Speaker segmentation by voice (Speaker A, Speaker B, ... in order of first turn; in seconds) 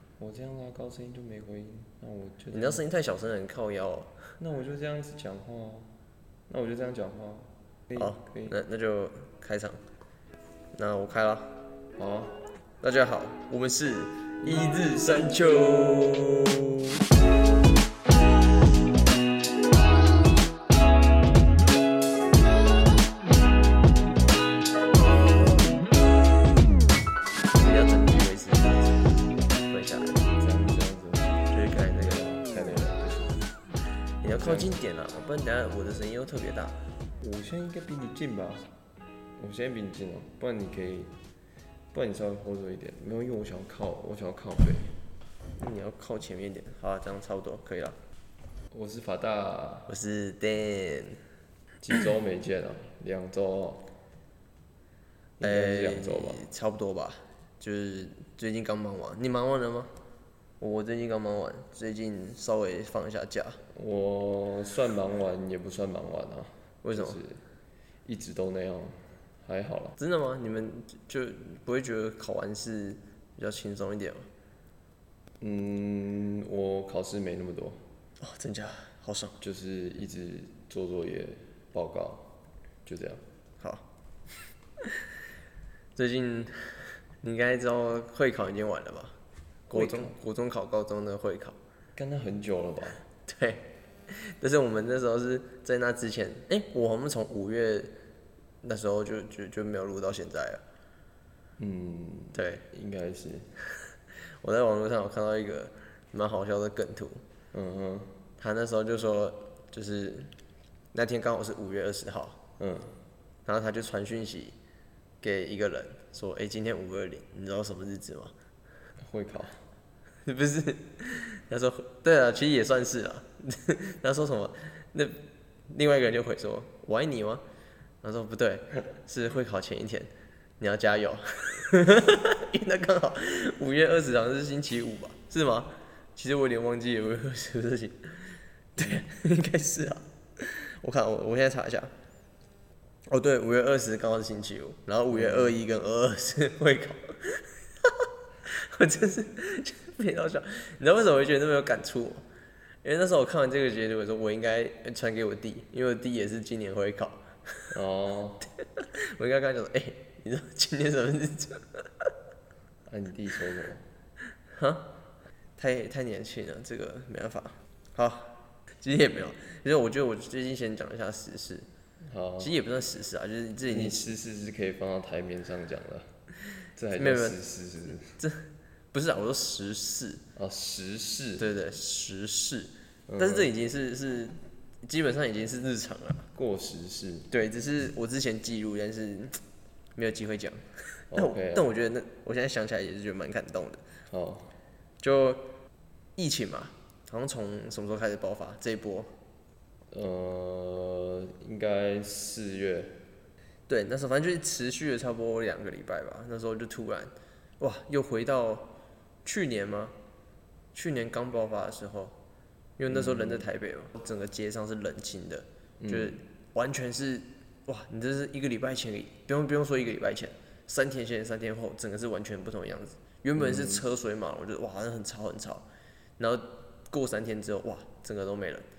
Speaker A: 0.2-2.8, 4.4-5.9, 6.5-8.6, 12.0-12.4, 30.4-33.5, 34.3-34.7, 37.2-38.6, 39.4-41.1, 41.9-44.9, 48.7-49.9, 51.8-53.9, 55.4-56.4, 63.7-67.4, 68.0-70.0, 75.4-77.8, 79.4-82.3, 82.9-83.2, 89.7-90.1, 92.0-93.0, 101.6-103.5, 107.5-108.1, 112.6-112.9, 119.0-119.6, 145.1-145.6, 157.7-158.5, 162.9-163.8, 172.1-172.6, 173.7-176.1, 176.7-178.2, 180.4-181.5, 183.1-183.5, 186.3-187.3, 191.1-191.7, 194.1-194.5, 199.9-203.0, 212.9-213.4, 215.8-216.2, 223.4-223.8
Speaker B: 2.5-4.1, 8.0-9.8, 10.8-11.6, 12.8-16.9, 27.5-29.1, 29.7-30.2, 31.5-32.2, 34.2-36.8, 45.6-48.0, 49.9-51.2, 55.4-59.9, 60.6-63.6, 66.8-67.2, 70.0-74.3, 78.2-79.4, 84.8-85.1, 86.0-89.2, 89.7-91.6, 93.2-97.9, 98.6-100.6, 102.3-102.6, 104.4-107.2, 108.4-110.3, 110.9-112.4, 113.5-114.6, 115.2-118.3, 120.2-127.4, 128.0-141.9, 143.1-152.2, 152.8-157.7, 158.6-162.1, 164.5-164.9, 165.6-171.7, 172.4-174.1, 176.9-177.4, 178.2-180.2, 181.4-186.3, 187.3-189.4, 190.0-193.8, 195.0-195.5, 196.2-199.1, 203.7-208.7, 209.2-209.9, 210.7-212.2, 212.8-225.7, 226.2-228.7